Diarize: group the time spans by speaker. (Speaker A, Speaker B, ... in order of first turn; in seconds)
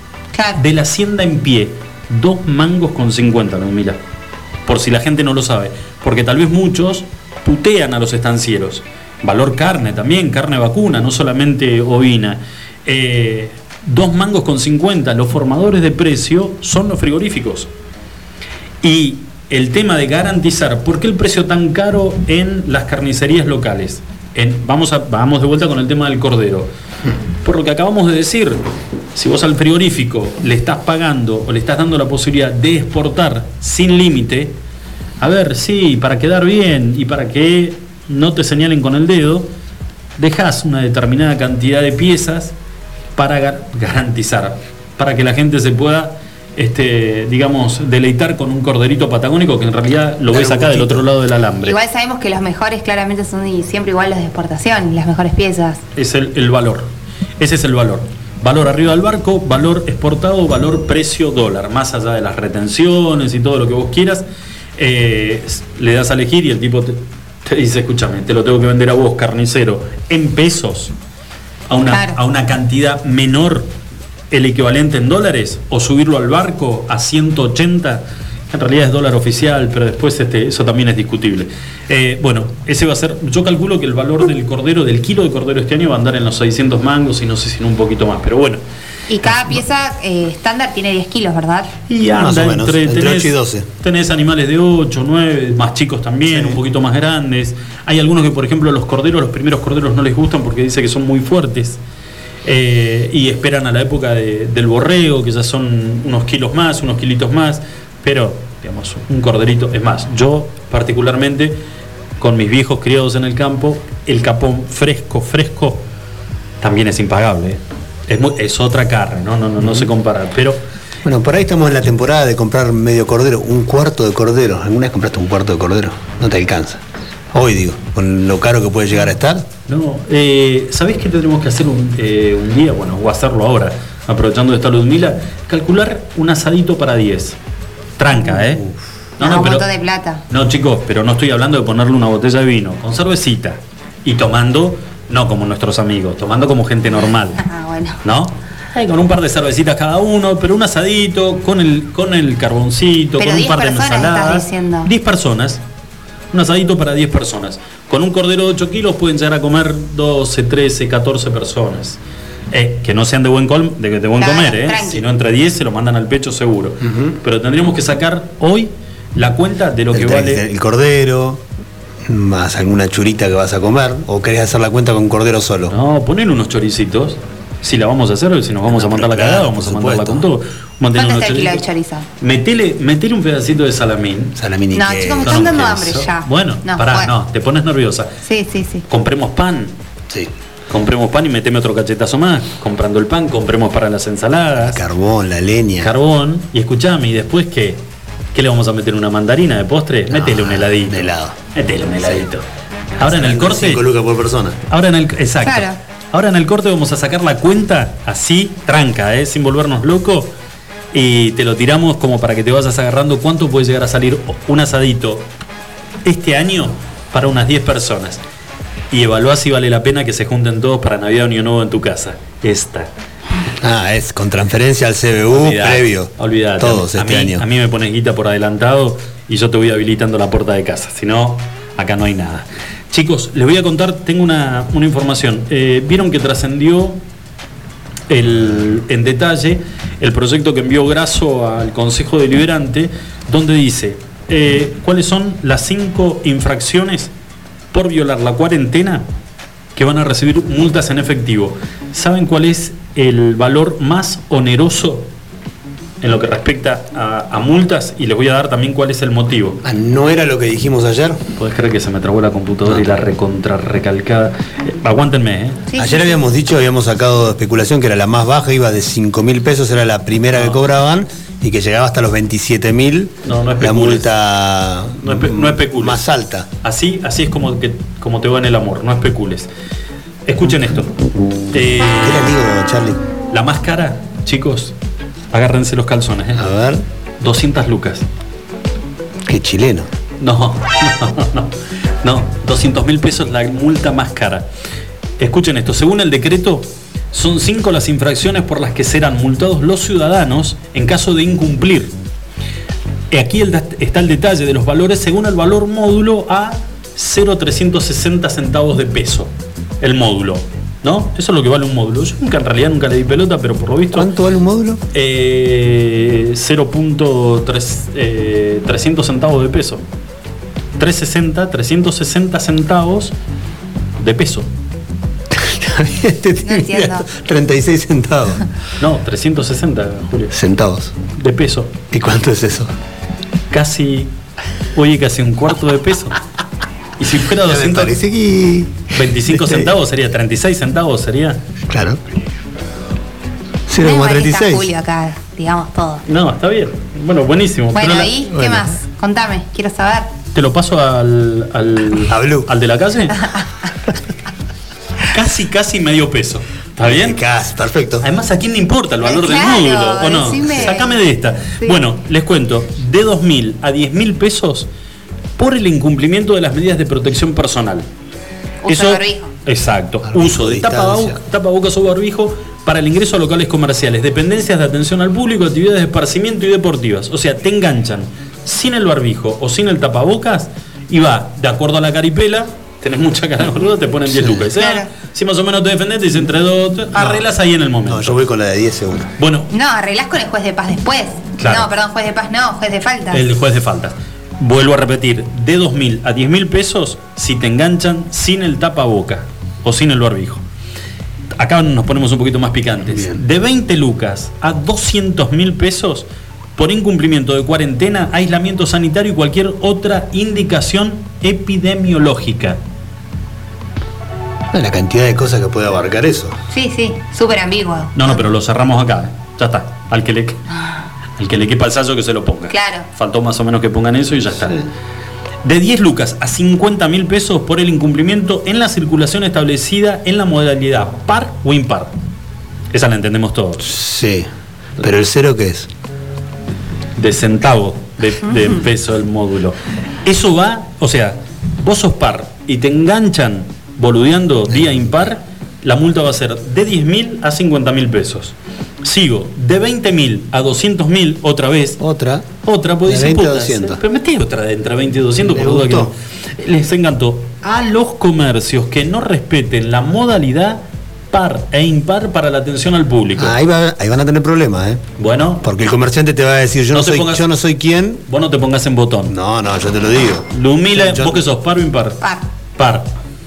Speaker A: 0.3-0.6, 51.6-55.8, 71.9-72.2, 89.1-91.7, 139.2-140.2, 147.4-148.0, 153.2-154.9, 164.2-165.0, 180.9-182.1, 184.7-187.1, 188.2-188.8, 205.4-205.8, 265.7-266.2, 326.4-327.1, 343.8-346.0, 347.7-350.1, 353.2-353.4, 359.0-361.0, 368.6-369.3, 384.6-384.9, 389.5-393.3, 416.5-418.1, 422.5-422.9
Speaker B: 0.6-4.0, 4.7-17.7, 18.8-26.7, 27.4-28.6, 29.1-34.5, 35.2-39.5, 40.2-42.5, 43.1-51.8, 56.0-64.2, 64.8-70.9, 71.7-73.7, 74.3-88.6, 91.9-101.8, 102.4-111.6, 112.2-115.8, 116.6-120.6, 129.7-137.3, 138.0-138.6, 139.2-139.6, 140.3-147.4, 148.0-155.6, 156.3-162.0, 162.5-170.4, 175.7-181.6, 182.2-184.4, 185.2-188.1, 188.9-189.7, 190.7-194.8, 195.8-197.8, 198.3-202.4, 203.0-203.8, 204.7-210.3, 210.9-215.2, 216.0-218.2, 218.9-222.9, 225.3-237.0, 238.1-247.1, 247.7-249.1, 249.8-255.1, 256.0-259.6, 261.4-265.6, 273.2-274.1, 275.0-276.0, 276.6-279.5, 280.3-280.9, 281.5-282.3, 283.3-284.7, 285.3-286.4, 287.2-288.0, 290.2-294.4, 295.2-301.9, 303.1-314.1, 314.9-319.8, 320.8-323.1, 324.0-324.5, 328.8-330.3, 331.1-331.7, 333.5-334.1, 334.7-336.2, 337.0-337.9, 338.9-341.4, 346.1-348.1, 350.3-353.2, 355.1-357.2, 358.0-364.7, 365.4-367.9, 368.7-388.2, 389.2-389.5, 391.4-391.7, 393.1-400.4, 401.4-412.6, 417.9-420.4, 421.2-424.6, 425.4-431.9, 432.7-433.7, 436.9-451.8, 452.4-463.4, 465.0-465.4, 466.7-467.2, 468.1-469.1, 470.3-472.0, 472.6-472.9
Speaker C: 50.3-51.1, 92.1-93.7, 96.3-96.6, 119.6-119.9, 121.0-129.4, 138.2-138.7, 166.8-167.2, 169.9-171.4, 172.0-175.7, 178.7-180.2, 184.3-185.7, 194.6-195.9, 200.1-201.4, 202.0-202.2, 203.0-204.6, 223.6-227.4, 259.6-261.2, 265.8-276.5, 281.9-283.0, 286.3-286.8, 289.2-289.9, 313.9-314.8, 325.3-328.4, 330.3-330.9, 331.9-332.7, 337.4-339.7, 341.7-342.0, 343.7-344.7, 348.3-348.7, 352.1-352.5, 356.8-358.0, 360.4-360.8, 370.1-371.2, 384.1-384.5, 387.9-389.1, 402.8-403.2, 414.5-416.4, 433.6-435.7, 444.5-445.1, 451.8-452.3, 452.9-453.8, 455.2-455.9, 463.2-464.8, 465.4-468.0, 469.1-471.2